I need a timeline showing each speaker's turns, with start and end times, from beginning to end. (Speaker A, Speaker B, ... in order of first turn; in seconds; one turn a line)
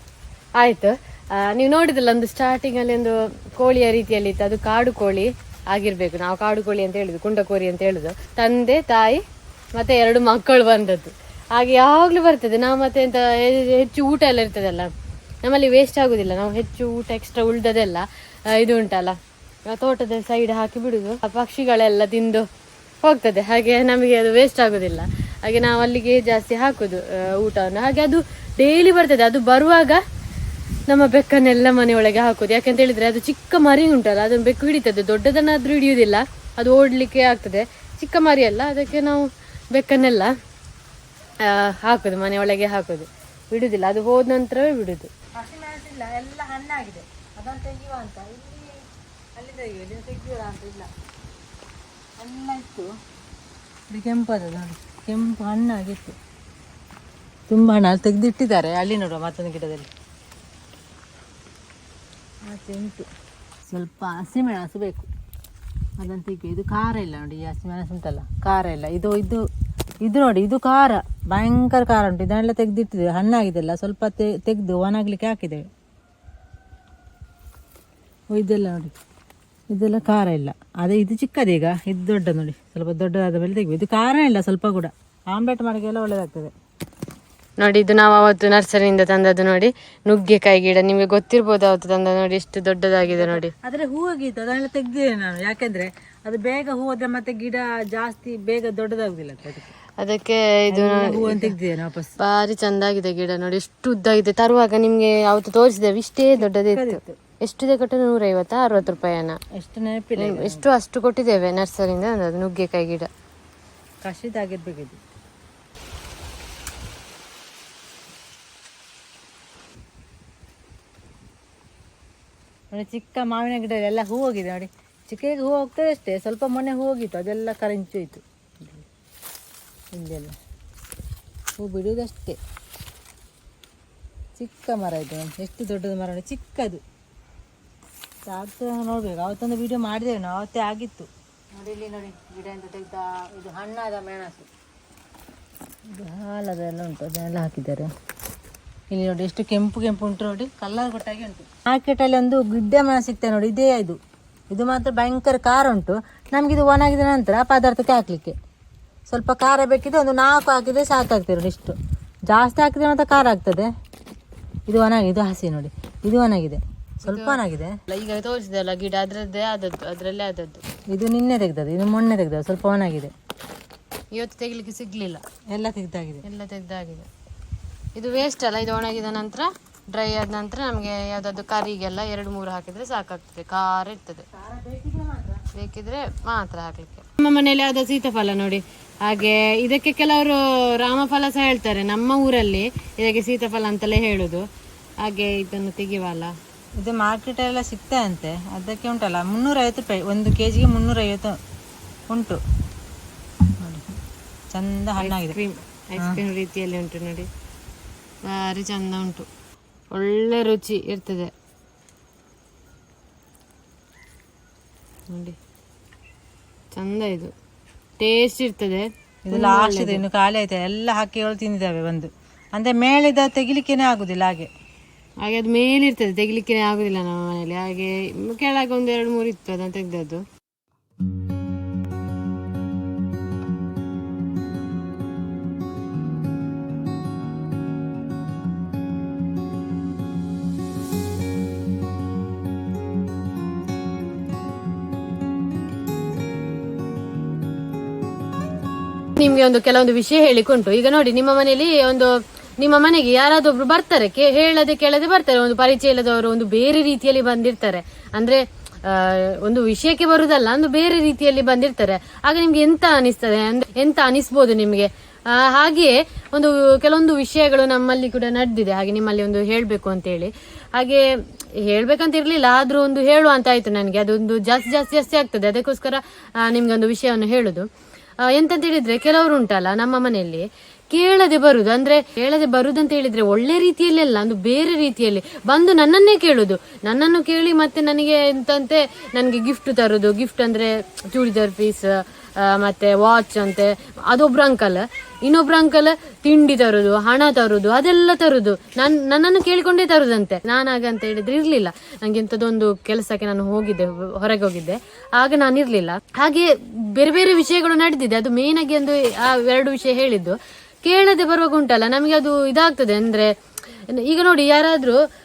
Speaker A: 0.6-9.2
Speaker A: 9.8-14.9
Speaker A: 15.4-22.5
Speaker A: 23.0-30.0
Speaker A: 30.9-40.3
Speaker A: 41.4-45.1
Speaker B: 45.4-50.9
Speaker B: 52.2-52.9
Speaker B: 53.9-56.2
Speaker B: 57.5-59.9
Speaker B: 62.5-63.1
Speaker B: 63.7-65.1
Speaker B: 66.0-69.4
Speaker B: 70.0-75.7
Speaker B: 78.3-79.0
Speaker B: 79.7-86.5
Speaker A: 87.6-93.5
Speaker B: 93.1-99.7
Speaker A: 100.0-101.6
Speaker B: 100.7-102.1
Speaker A: 102.2-109.4
Speaker B: 106.4-107.2
Speaker B: 109.5-110.7
Speaker A: 110.2-113.1
Speaker B: 114.0-115.0
Speaker B: 122.7-128.7
Speaker B: 129.9-130.4
Speaker B: 131.6-132.4
Speaker B: 134.4-136.8
Speaker B: 138.3-144.5
Speaker B: 145.9-147.9
Speaker B: 148.9-154.0
Speaker B: 154.5-158.4
Speaker B: 159.1-161.8
Speaker B: 162.3-163.7
Speaker B: 164.7-167.8
Speaker A: 167.0-170.6
Speaker B: 170.9-173.1
Speaker A: 174.1-175.2
Speaker B: 175.5-176.2
Speaker A: 176.2-177.1
Speaker A: 178.0-184.3
Speaker B: 184.3-185.4
Speaker A: 185.5-194.5
Speaker A: 195.0-196.3
Speaker B: 196.8-201.4
Speaker B: 202.1-202.4
Speaker B: 203.5-204.0
Speaker B: 204.5-205.4
Speaker A: 205.0-207.3
Speaker A: 208.3-209.3
Speaker A: 209.9-211.3
Speaker A: 215.1-215.4
Speaker A: 216.7-217.3
Speaker A: 218.0-220.1
Speaker B: 219.3-224.5
Speaker A: 225.2-230.2
Speaker A: 249.2-277.7
Speaker A: 278.3-313.3
Speaker A: 313.9-315.0